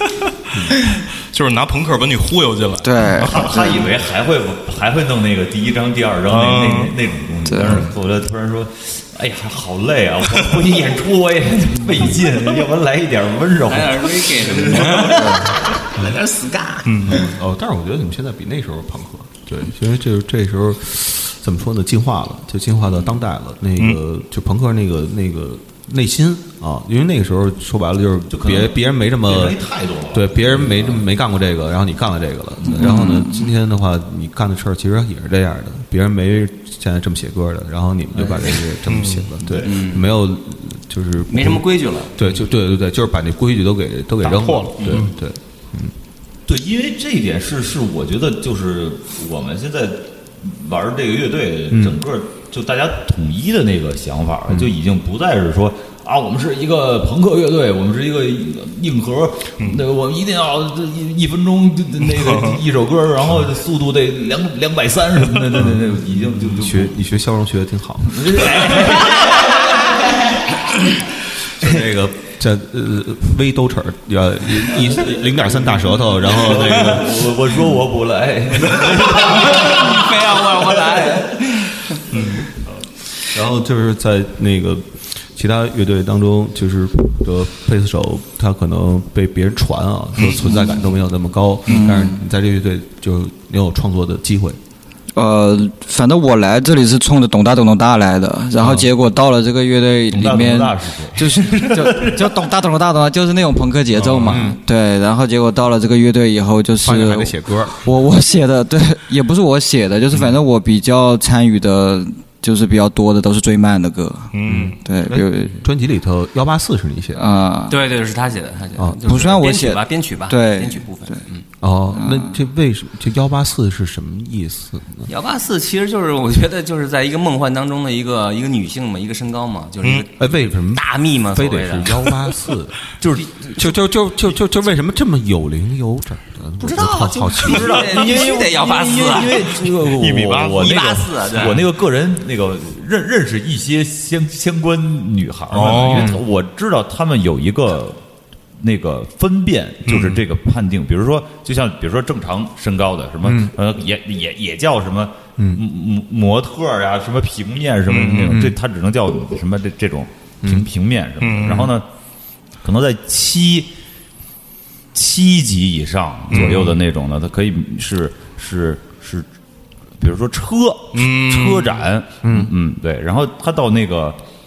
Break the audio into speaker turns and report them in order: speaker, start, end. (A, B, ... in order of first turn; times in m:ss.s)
0:00.9-0:03.3 A
0:02.8-0:03.9 B
0:03.2-0:15.6 C
0:06.3-0:07.0 A
0:07.4-0:07.8 B
0:13.6-0:15.5 D
0:16.0-0:16.8 D
0:16.8-0:17.2 A
0:17.0-0:29.6 E
0:28.3-0:31.0 C
0:30.1-0:45.9 E
0:32.7-0:33.5 B
0:38.8-0:39.3 A
0:39.4-0:39.7 C
0:39.6-0:40.1 D
0:41.3-0:42.1 D
0:44.2-0:45.0 C
0:44.8-0:45.1 A
0:46.4-1:07.0 C
0:51.7-0:52.0 E
0:54.5-0:54.7 E
1:02.1-1:02.6 A
1:05.6-1:08.4 E
1:08.0-1:10.6 C
1:11.6-1:17.2 E
1:14.8-1:20.8 C
1:19.2-1:21.9 D
1:22.1-1:22.4 A
1:23.3-1:34.6 E
1:30.2-1:30.4 A
1:31.7-1:32.2 B
1:35.1-1:55.6 B
1:40.1-1:42.5 C
1:44.0-1:44.4 A
1:44.2-1:44.6 E
1:46.8-1:47.9 E
1:54.3-1:54.8 A
1:54.4-1:57.2 E
1:57.2-1:57.8 B
1:57.7-2:01.4 D
1:58.8-1:59.0 E
1:59.0-2:01.2 B
2:01.6-2:05.1 E
2:01.9-2:02.3 B
2:05.1-2:12.2 D
2:10.2-2:12.8 E
2:13.0-2:13.7 C
2:13.6-2:17.8 E
2:16.6-2:19.6 D
2:17.4-2:28.0 C
2:20.0-2:20.7 A
2:20.4-2:21.6 D
2:25.5-2:26.1 A
2:28.6-2:41.9 C
2:29.9-2:30.2 A
2:33.2-2:33.5 E
2:35.4-2:35.6 E
2:37.9-2:38.4 A
2:38.2-2:38.5 E
2:41.2-2:41.7 A
2:42.6-2:43.7 C
2:44.9-2:49.3 C
2:46.3-2:46.8 A
2:50.0-2:54.2 C
2:50.9-2:51.9 A
2:52.2-2:52.5 E